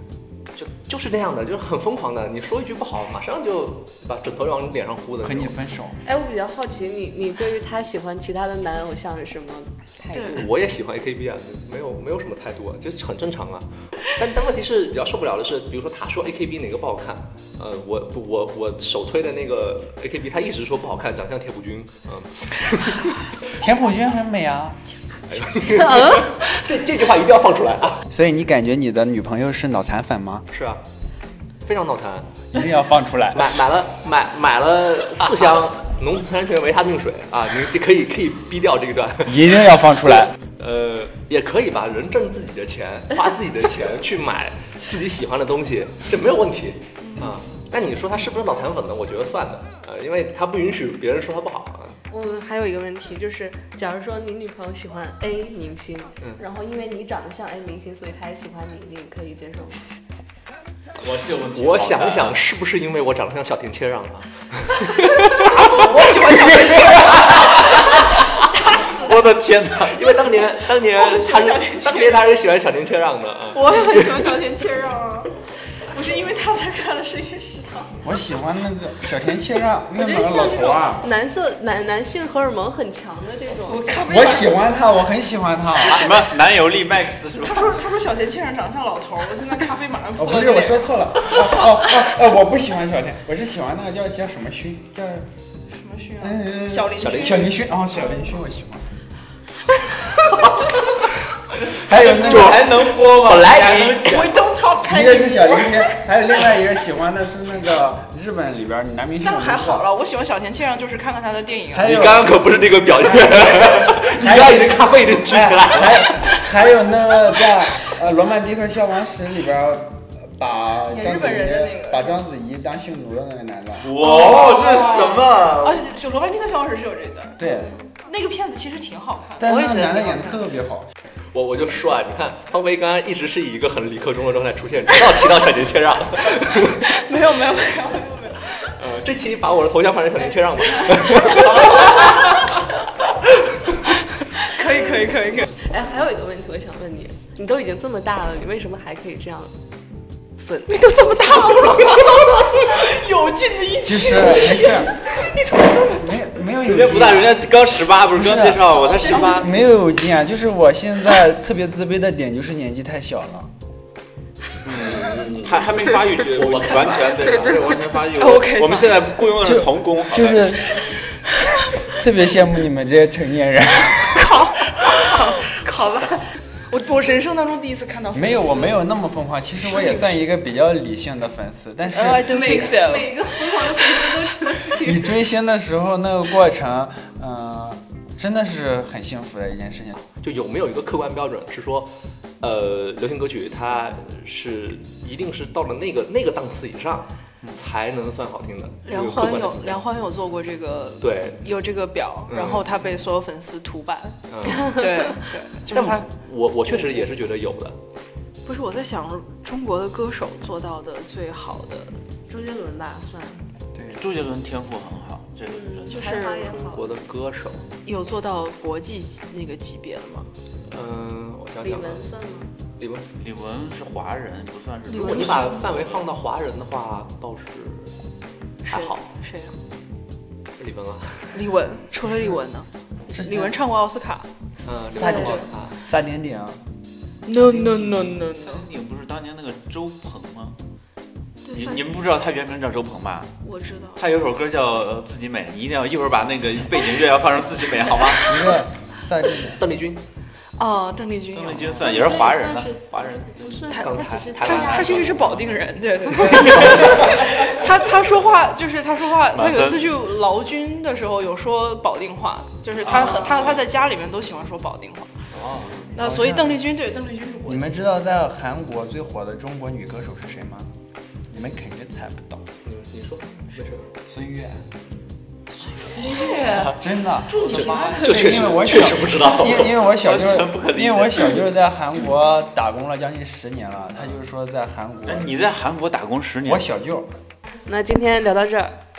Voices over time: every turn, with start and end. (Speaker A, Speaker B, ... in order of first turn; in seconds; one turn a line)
Speaker A: 0.6-5.5
Speaker B: 5.2-6.0
Speaker C: 6.0-10.5
Speaker D: 10.1-10.5
Speaker A: 10.3-23.2
Speaker B: 23.5-24.8
Speaker A: 25.3-28.1
Speaker B: 28.1-30.5
Speaker A: 30.5-30.8
Speaker A: 31.6-32.5
Speaker B: 32.5-33.5
Speaker A: 33.3-39.5
Speaker B: 39.2-40.4
Speaker A: 40.6-52.0
Speaker C: 52.1-59.9
Speaker E: 61.0-62.4
Speaker A: 61.5-65.6
Speaker D: 65.3-69.1
Speaker A: 66.2-68.3
Speaker E: 68.8-70.1
Speaker A: 69.7-74.3
Speaker D: 70.9-72.2
Speaker D: 73.5-78.0
Speaker B: 78.0-81.1
Speaker C: 80.0-84.1
Speaker D: 83.7-84.5
Speaker B: 84.1-86.0
Speaker E: 85.8-87.8
Speaker D: 87.4-91.4
Speaker B: 90.2-95.3
Speaker D: 95.7-97.5
Speaker B: 96.2-98.9
Speaker A: 97.0-97.4
Speaker B: 101.7-102.7
Speaker E: 101.9-104.2
Speaker A: 102.0-104.4
Speaker D: 104.0-105.9
Speaker B: 104.9-109.9
Speaker D: 109.2-111.9
Speaker B: 111.7-112.3
Speaker A: 111.8-116.7
Speaker B: 113.0-123.9
Speaker D: 120.9-122.1
Speaker E: 123.8-125.9
Speaker D: 124.0-129.5
Speaker B: 127.4-127.7
Speaker B: 129.4-130.9
Speaker C: 129.5-130.4
Speaker A: 131.3-136.9
Speaker D: 136.8-138.5
Speaker A: 138.6-142.5
Speaker D: 141.2-141.9
Speaker D: 144.3-145.5
Speaker C: 145.6-149.6
Speaker C: 150.4-151.4
Speaker D: 150.7-156.2
Speaker B: 153.8-155.0
Speaker B: 155.9-157.4
Speaker A: 156.7-157.2
Speaker E: 156.8-159.6
Speaker B: 158.1-163.5
Speaker D: 159.0-159.3
Speaker E: 164.6-170.8
Speaker A: 164.8-167.6
Speaker D: 168.1-169.0
Speaker B: 169.4-170.9
Speaker B: 171.9-174.2
Speaker D: 174.1-178.8
Speaker C: 175.7-176.0
Speaker B: 178.1-182.6
Speaker D: 181.9-184.4
Speaker C: 182.2-185.2
Speaker B: 184.8-190.0
Speaker A: 190.0-199.9
Speaker D: 198.8-206.1
Speaker A: 201.0-201.4
Speaker A: 202.3-202.6
Speaker A: 204.3-204.8
Speaker A: 205.7-207.8
Speaker D: 208.4-212.0
Speaker C: 212.3-213.4
Speaker B: 213.8-214.0
Speaker E: 213.9-215.9
Speaker C: 215.5-217.0
Speaker D: 215.9-216.5
Speaker A: 216.4-217.7
Speaker D: 217.8-220.3
Speaker A: 220.7-222.0
Speaker C: 221.6-222.5
Speaker A: 222.8-223.1
Speaker E: 223.1-226.1
Speaker D: 224.9-225.6
Speaker A: 224.9-227.9
Speaker D: 228.7-229.6
Speaker A: 228.7-229.1
Speaker A: 230.6-231.4
Speaker D: 231.3-234.3
Speaker B: 233.1-233.6
Speaker A: 234.6-235.8
Speaker D: 235.0-235.5
Speaker B: 235.9-236.6
Speaker D: 237.2-238.6
Speaker E: 238.3-240.6
Speaker D: 241.4-241.9
Speaker E: 241.5-243.4
Speaker D: 243.4-244.0
Speaker E: 244.0-248.6
Speaker B: 248.2-249.6
Speaker A: 249.6-250.0
Speaker D: 250.6-252.2
Speaker E: 251.3-252.8
Speaker C: 251.8-255.0
Speaker A: 253.0-255.5
Speaker D: 253.7-265.1
Speaker A: 256.4-256.8
Speaker E: 259.3-259.9
Speaker E: 262.9-263.5
Speaker E: 265.3-265.9
Speaker D: 265.9-267.9
Speaker B: 266.0-266.7
Speaker B: 267.5-270.7
Speaker B: 271.3-272.4
Speaker A: 272.6-273.9
Speaker B: 274.0-274.7
Speaker D: 275.6-278.1
Speaker B: 276.7-277.4
Speaker E: 277.4-278.3
Speaker A: 277.5-279.8
Speaker B: 278.0-285.4
Speaker E: 279.9-281.5
Speaker E: 285.1-286.7
Speaker B: 286.4-287.1
Speaker C: 287.6-288.8